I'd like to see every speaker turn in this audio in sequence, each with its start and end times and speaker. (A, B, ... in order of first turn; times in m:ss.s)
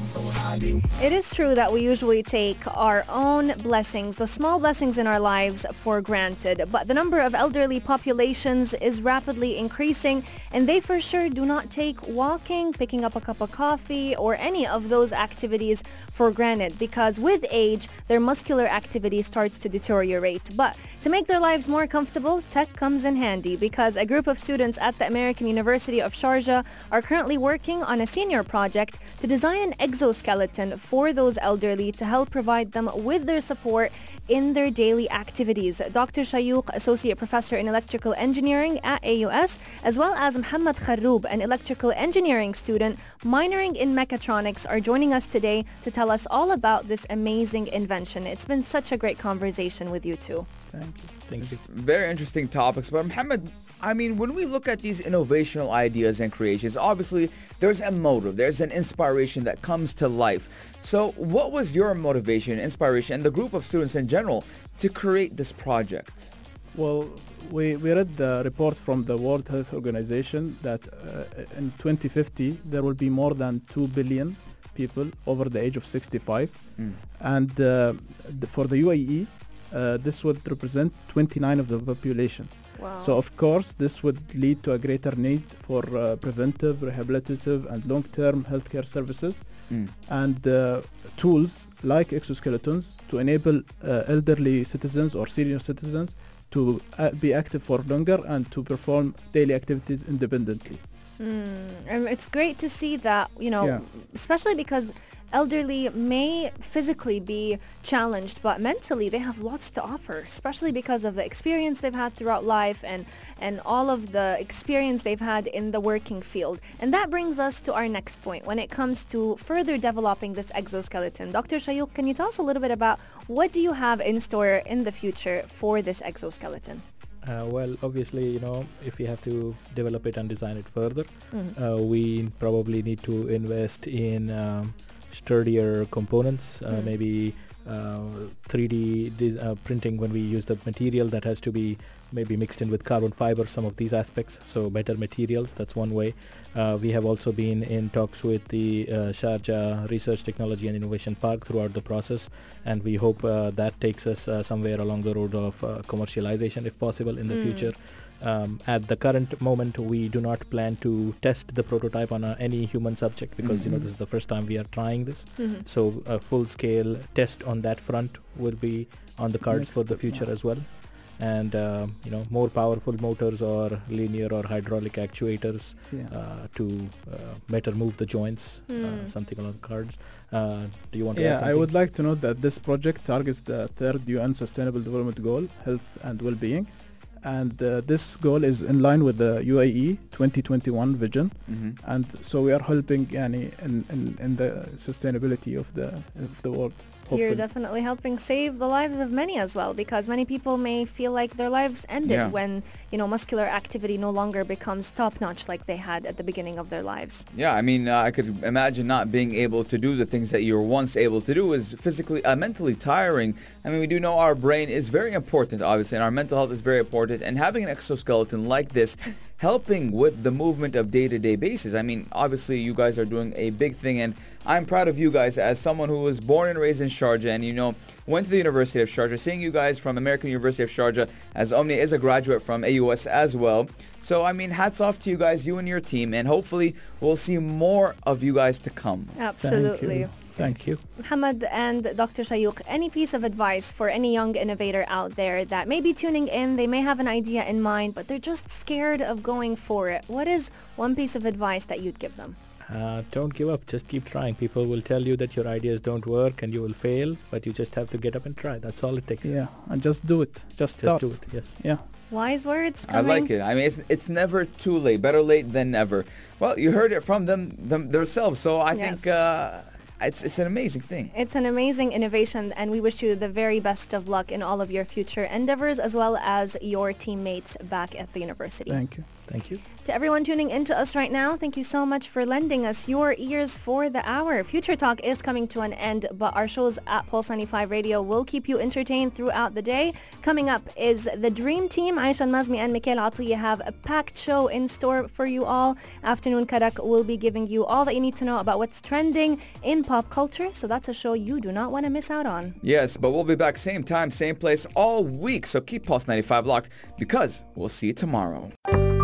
0:01.0-0:50.5 A
0:50.7-0:51.6 B
0:51.3-0:51.6 C
0:51.6-1:06.3 D
1:06.7-1:40.8 B
1:16.8-1:17.0 D
1:22.8-1:23.2 A
1:29.7-1:29.9 D
1:41.2-2:06.8 A
2:07.2-3:01.7 C
2:37.3-2:37.7 A
2:43.4-2:43.7 D
2:45.4-2:45.6 A
2:49.5-2:50.3 B
2:55.9-2:56.1 B
2:58.7-2:59.1 A
3:01.1-3:17.4 B
3:11.4-3:11.8 D
3:17.1-3:27.2 A
3:22.0-3:22.3 D
3:27.3-3:59.2 D
3:59.1-4:00.3 A
3:59.4-4:00.8 B
4:01.0-4:12.4 A
4:12.7-4:19.4 C
4:19.2-4:21.8 B
4:20.8-4:21.6 C
4:22.1-4:23.3 A
4:22.9-4:31.1 D
4:28.7-4:29.3 A
4:31.1-4:39.2 A
4:38.7-4:39.2 B
4:39.2-4:39.6 C
4:39.8-5:02.6 A
5:02.6-5:08.5 D